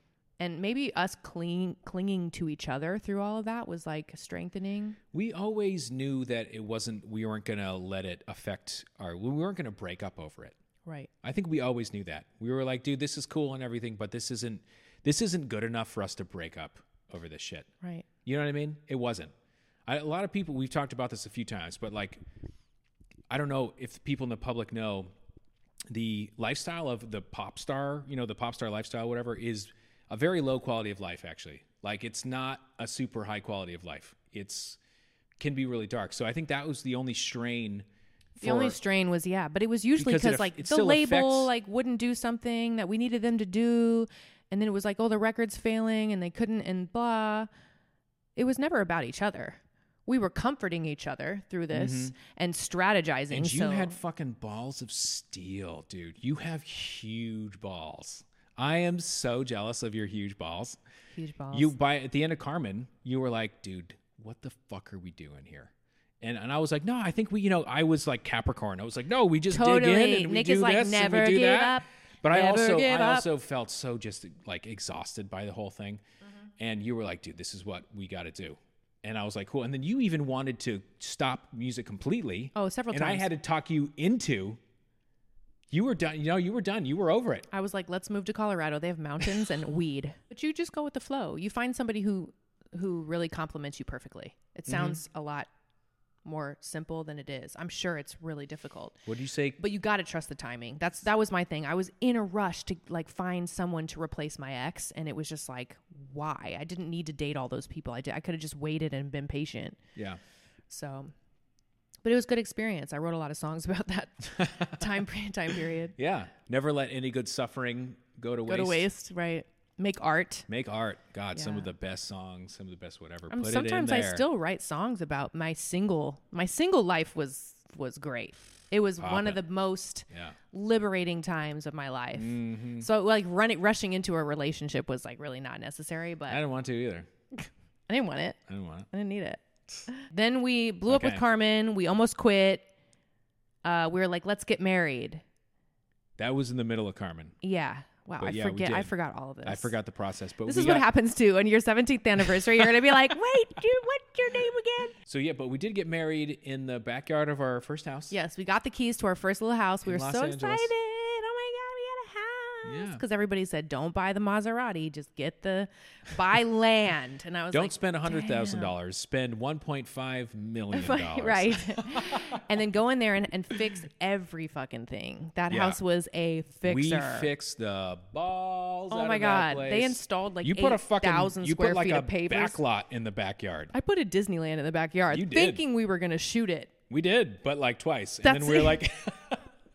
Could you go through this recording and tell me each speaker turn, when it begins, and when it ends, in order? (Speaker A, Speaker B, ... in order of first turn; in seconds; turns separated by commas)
Speaker A: 0.4-5.0, Speaker B: 5.1-10.6, Speaker A: 10.9-11.1, Speaker B: 11.2-17.7, Speaker A: 17.8-18.1, Speaker B: 18.2-19.3, Speaker B: 19.9-22.2, Speaker B: 23.3-25.1, Speaker B: 25.9-34.8, Speaker B: 35.4-38.8, Speaker A: 38.4-47.5, Speaker B: 40.0-41.5, Speaker A: 48.4-54.0, Speaker B: 51.7-52.1, Speaker B: 53.3-60.8, Speaker A: 61.2-61.8, Speaker B: 61.5-76.0, Speaker A: 69.5-73.3, Speaker B: 76.6-84.6, Speaker A: 82.5-83.3, Speaker B: 85.7-87.5, Speaker A: 87.5-95.5, Speaker B: 94.7-95.0, Speaker A: 96.2-99.0, Speaker B: 99.1-99.6, Speaker A: 99.6-109.8, Speaker A: 110.7-111.1, Speaker A: 112.0-116.0, Speaker B: 114.4-114.9, Speaker B: 116.0-118.9, Speaker A: 118.5-120.5, Speaker B: 120.5-124.2, Speaker A: 121.3-121.7, Speaker A: 123.3-136.4, Speaker B: 129.0-129.4, Speaker B: 130.1-130.4, Speaker B: 132.1-132.9, Speaker B: 136.3-137.1, Speaker A: 137.4-138.4, Speaker B: 138.5-138.9, Speaker A: 138.9-142.7, Speaker B: 140.9-141.2, Speaker A: 143.6-145.2, Speaker B: 146.2-147.3, Speaker A: 147.4-149.8, Speaker B: 148.2-148.9, Speaker B: 149.5-150.9, Speaker A: 150.5-154.9, Speaker B: 152.4-152.7, Speaker B: 155.1-158.1, Speaker A: 158.1-168.7, Speaker B: 159.8-160.7, Speaker B: 162.7-163.0, Speaker B: 167.5-172.4, Speaker A: 170.7-177.3, Speaker B: 175.5-175.8, Speaker B: 176.7-183.7, Speaker A: 178.9-182.6, Speaker A: 183.7-186.7, Speaker B: 185.1-185.6, Speaker B: 186.9-189.5, Speaker A: 188.2-188.8